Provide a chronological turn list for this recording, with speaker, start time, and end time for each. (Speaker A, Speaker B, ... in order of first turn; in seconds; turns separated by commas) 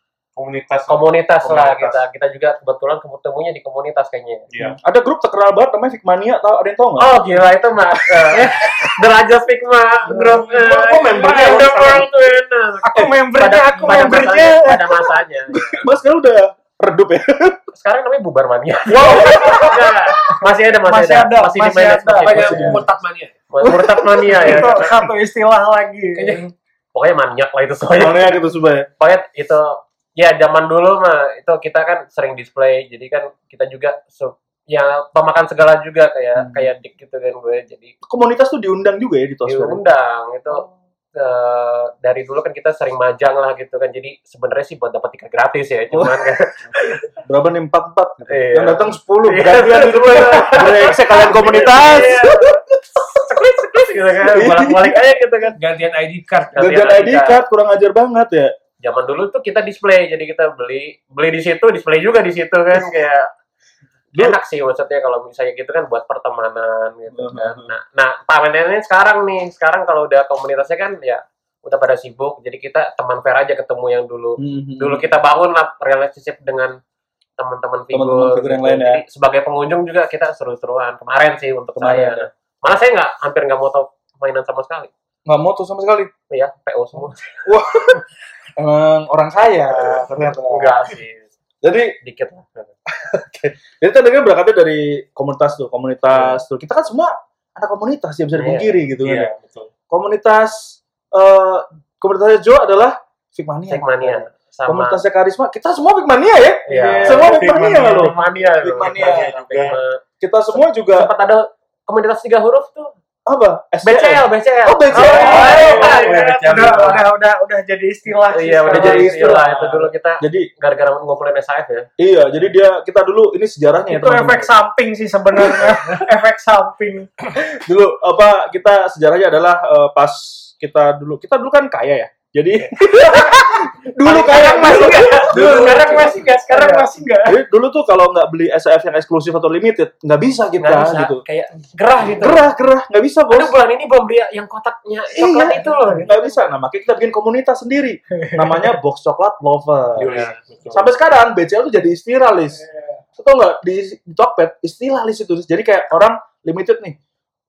Speaker A: 0.3-2.0, Speaker B: 0.9-4.5, Speaker A: 4.5-4.8, Speaker C: 4.6-7.1, Speaker B: 7.0-15.8, Speaker C: 8.3-8.9, Speaker D: 10.1-10.4, Speaker A: 10.2-12.1, Speaker D: 12.8-14.8, Speaker C: 13.9-14.8, Speaker C: 15.5-17.6, Speaker B: 17.7-22.7, Speaker C: 18.9-19.8, Speaker D: 19.1-19.6, Speaker D: 20.8-22.8, Speaker E: 22.2-23.5, Speaker C: 22.4-22.8, Speaker B: 23.5-24.9, Speaker D: 23.7-26.5, Speaker E: 26.1-26.5, Speaker B: 26.9-28.4, Speaker C: 27.9-28.9, Speaker B: 29.0-37.9, Speaker C: 36.4-36.7, Speaker C: 38.0-39.8, Speaker B: 39.5-47.0, Speaker C: 47.2-52.5, Speaker B: 48.3-55.6, Speaker C: 54.3-55.2, Speaker E: 55.6-56.6, Speaker B: 56.5-57.4, Speaker C: 56.5-58.5, Speaker B: 58.8-63.3, Speaker B: 64.2-76.8, Speaker C: 67.1-67.7, Speaker C: 74.4-75.2, Speaker B: 77.4-84.9, Speaker C: 77.9-79.0, Speaker C: 81.8-82.3, Speaker C: 85.3-86.1, Speaker B: 86.3-87.3, Speaker C: 87.5-88.0, Speaker C: 88.6-90.8, Speaker B: 89.9-91.3, Speaker C: 91.6-92.0, Speaker B: 92.0-92.7, Speaker C: 93.0-99.3, Speaker B: 96.1-96.4, Speaker B: 98.3-98.9, Speaker A: 99.0-99.7, Speaker C: 99.9-109.3, Speaker B: 103.7-105.0, Speaker B: 106.7-110.0, Speaker A: 107.0-109.8, Speaker C: 110.2-111.1, Speaker B: 110.5-112.9, Speaker C: 113.3-115.9, Speaker B: 113.8-117.0, Speaker D: 114.9-119.5, Speaker A: 115.1-117.0, Speaker B: 118.3-121.9, Speaker C: 118.7-120.5, Speaker C: 122.0-124.5, Speaker D: 123.9-127.1, Speaker C: 127.3-136.1, Speaker D: 134.0-137.4, Speaker B: 134.1-136.8, Speaker E: 135.3-135.8, Speaker C: 137.2-141.2, Speaker B: 140.6-142.5, Speaker C: 142.2-143.5, Speaker B: 143.3-146.4, Speaker C: 145.1-150.1, Speaker D: 148.2-148.6, Speaker A: 149.9-150.9, Speaker B: 150.0-150.4, Speaker C: 150.7-152.6, Speaker C: 153.2-157.0